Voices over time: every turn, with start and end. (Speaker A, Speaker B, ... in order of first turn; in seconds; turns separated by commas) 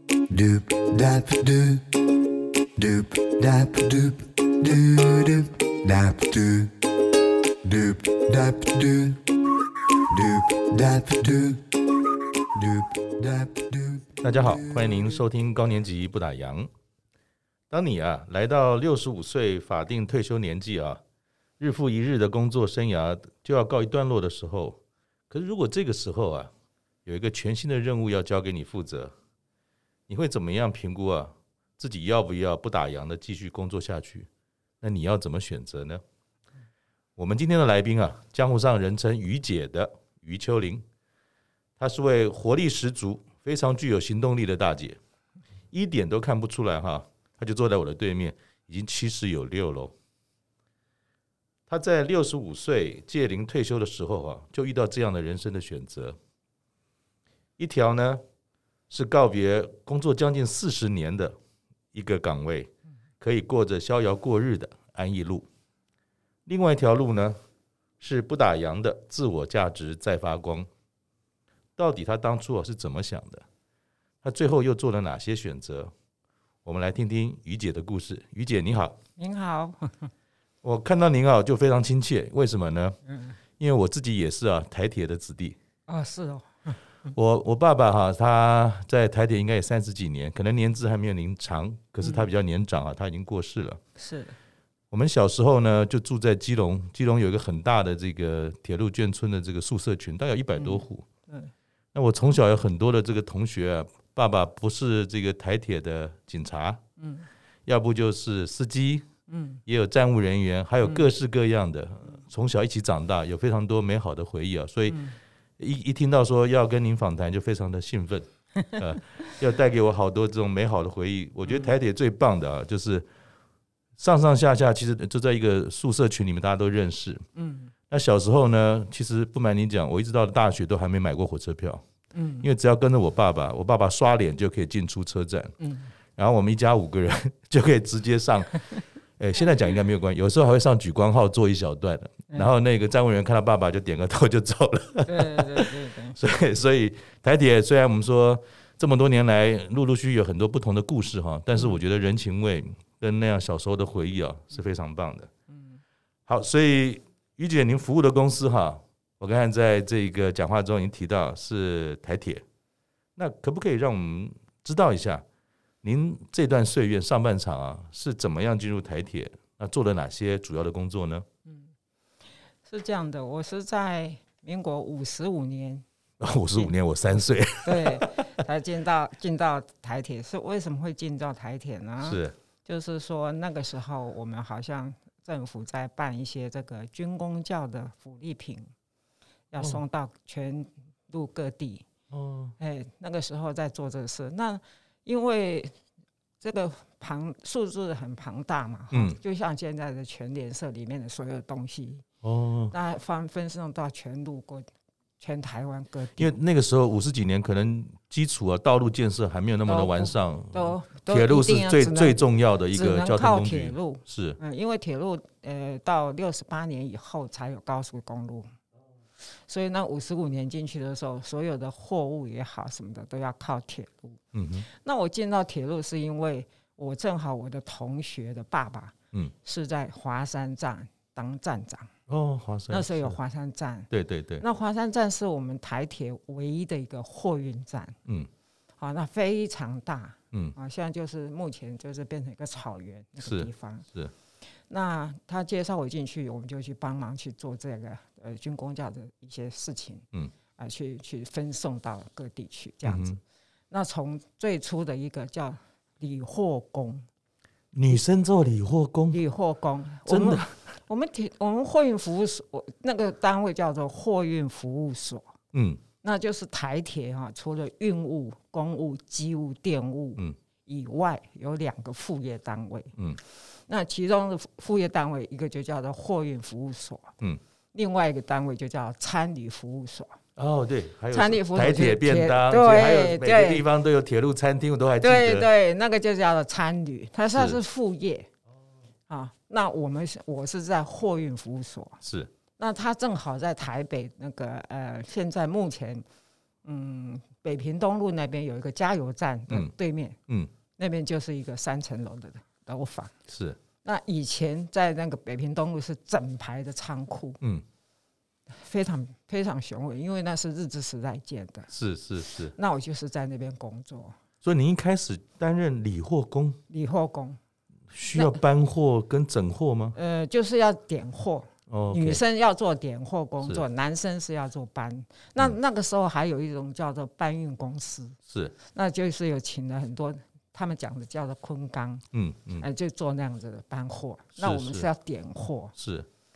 Speaker A: 0.3-2.1, Speaker A: 2.8-6.9, Speaker A: 7.6-9.3, Speaker A: 10.1-11.8, Speaker A: 12.4-15.2, Speaker B: 14.2-16.7, Speaker B: 17.7-21.0, Speaker B: 21.6-26.5, Speaker B: 27.1-29.1, Speaker B: 30.1-34.3, Speaker B: 34.8-36.0, Speaker B: 37.2-40.9, Speaker B: 41.8-45.0, Speaker B: 45.7-50.0, Speaker B: 51.7-56.2, Speaker B: 57.6-58.2, Speaker B: 58.9-61.4, Speaker B: 61.9-65.5, Speaker B: 66.5-67.4, Speaker B: 68.0-70.7, Speaker B: 71.8-73.5, Speaker B: 74.2-75.9, Speaker B: 76.7-79.0, Speaker C: 79.2-80.1, Speaker B: 80.6-83.0, Speaker C: 83.1-83.4, Speaker B: 83.6-85.6, Speaker C: 85.9-86.8, Speaker B: 87.1-93.8, Speaker C: 94.0-94.3, Speaker B: 94.9-101.1, Speaker C: 100.6-101.5, Speaker B: 101.9-106.8, Speaker C: 107.0-107.3, Speaker B: 107.7-109.1, Speaker C: 109.3-109.6, Speaker B: 109.7-115.1, Speaker C: 110.8-111.1, Speaker C: 114.9-115.2, Speaker B: 115.6-123.1, Speaker C: 121.5-121.8, Speaker B: 124.0-127.3, Speaker C: 127.3-127.7, Speaker B: 127.9-131.8, Speaker C: 132.1-132.5, Speaker B: 132.4-135.5, Speaker C: 135.6-135.9, Speaker B: 136.2-138.6, Speaker B: 139.2-155.3, Speaker C: 145.1-146.2, Speaker C: 155.5-155.8, Speaker B: 156.3-162.4, Speaker B: 163.2-165.2, Speaker B: 165.8-171.3, Speaker C: 171.5-171.7, Speaker C: 172.7-175.8, Speaker B: 176.2-178.2, Speaker C: 177.6-188.7, Speaker B: 182.0-182.3, Speaker C: 189.5-191.9, Speaker B: 192.1-192.6, Speaker C: 192.6-195.8, Speaker C: 196.4-202.1, Speaker B: 198.9-199.2, Speaker B: 202.2-202.7, Speaker C: 202.7-204.7, Speaker C: 205.2-206.3, Speaker B: 206.2-214.4, Speaker C: 209.7-212.2, Speaker C: 212.7-218.5, Speaker C: 219.4-231.9, Speaker B: 224.3-224.7, Speaker B: 232.1-233.2, Speaker C: 232.7-238.0, Speaker B: 233.9-234.4, Speaker C: 238.8-243.9, Speaker B: 243.2-244.1, Speaker C: 244.7-250.1, Speaker C: 250.6-253.2, Speaker B: 252.8-253.2, Speaker C: 253.7-257.1, Speaker B: 257.7-259.2, Speaker C: 259.1-265.3, Speaker B: 260.1-260.5, Speaker B: 265.5-265.8, Speaker C: 266.0-272.9, Speaker C: 273.5-277.1, Speaker C: 277.7-280.2, Speaker B: 280.4-285.5, Speaker C: 281.1-283.6, Speaker C: 285.0-288.3, Speaker C: 289.1-292.0, Speaker B: 292.0-292.3, Speaker C: 292.6-296.1, Speaker C: 296.6-300.2, Speaker C: 300.8-303.1, Speaker B: 303.3-303.6, Speaker C: 303.8-307.4, Speaker C: 308.5-311.7, Speaker B: 311.7-312.6, Speaker C: 312.5-314.2, Speaker B: 314.4-316.6, Speaker C: 316.7-317.4, Speaker B: 317.9-320.0, Speaker C: 319.9-328.2, Speaker B: 321.7-322.2, Speaker B: 328.3-328.5, Speaker C: 328.7-332.1, Speaker B: 332.1-332.6, Speaker C: 332.6-335.7, Speaker B: 334.4-334.9, Speaker B: 335.8-336.1